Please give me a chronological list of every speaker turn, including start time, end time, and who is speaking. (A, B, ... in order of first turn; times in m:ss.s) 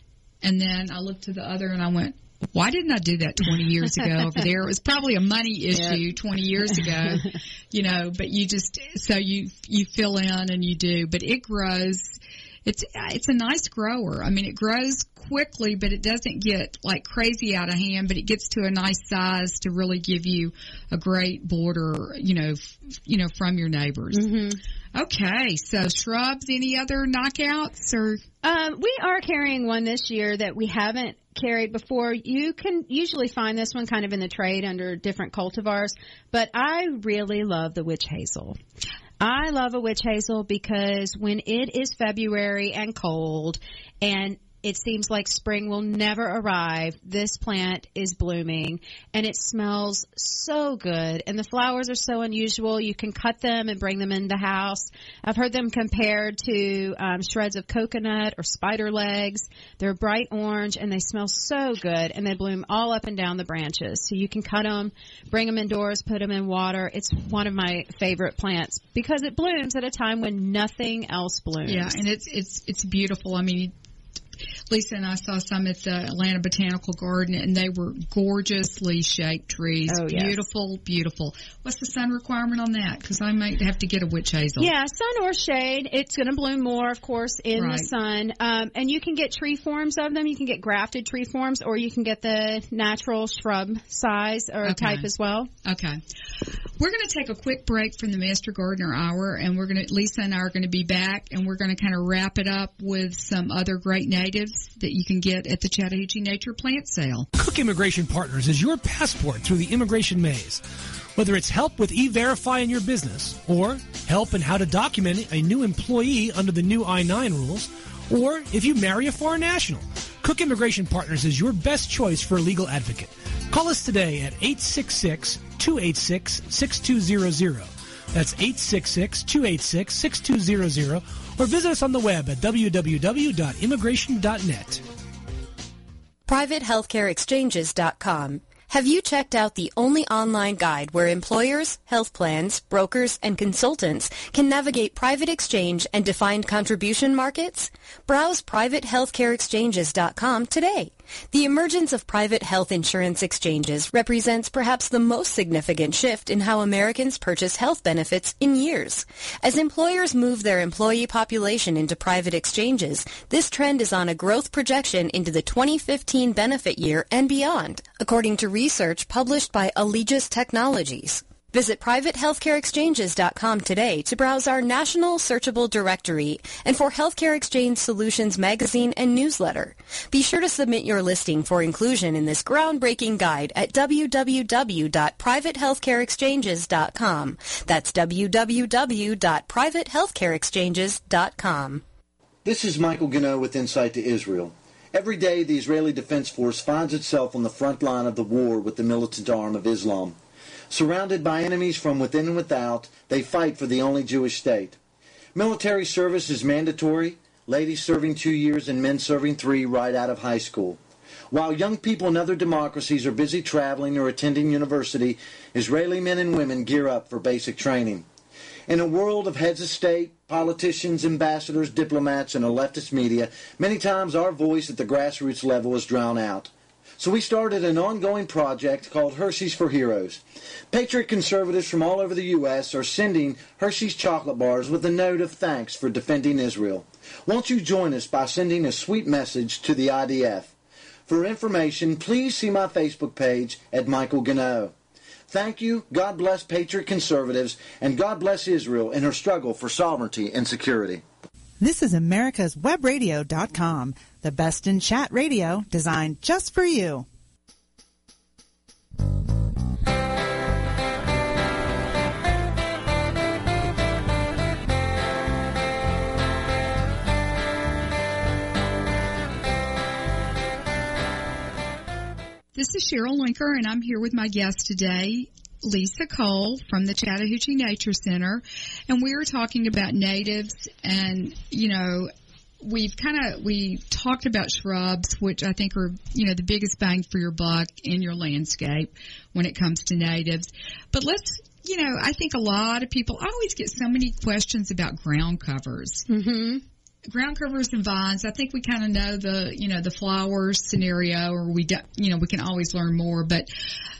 0:00.4-0:24.3 A
0:05.7-0:06.0 B
0:24.1-0:24.6 B
0:24.9-0:28.2 A
0:28.4-0:38.6 B
0:39.2-1:12.0 B
1:11.6-1:13.7 A
1:14.7-1:24.7 A
1:19.9-1:20.4 B
1:24.6-1:35.5 B
1:27.5-1:27.9 A
1:34.6-1:35.1 A
1:35.6-1:36.0 A
1:36.8-1:47.3 A
1:47.4-1:50.6 C
1:51.1-2:14.8 C
2:16.3-3:11.8 D
3:12.4-3:20.2 E
3:20.7-3:24.8 E
3:25.3-3:30.8 E
3:31.3-3:38.0 E
3:38.7-4:00.5 E
4:01.0-4:04.7 E
4:05.3-4:11.0 E
4:11.6-4:17.0 F
4:32.5-4:42.1 A
4:42.6-4:56.0 A
4:56.1-4:56.6 B
4:57.1-5:03.5 A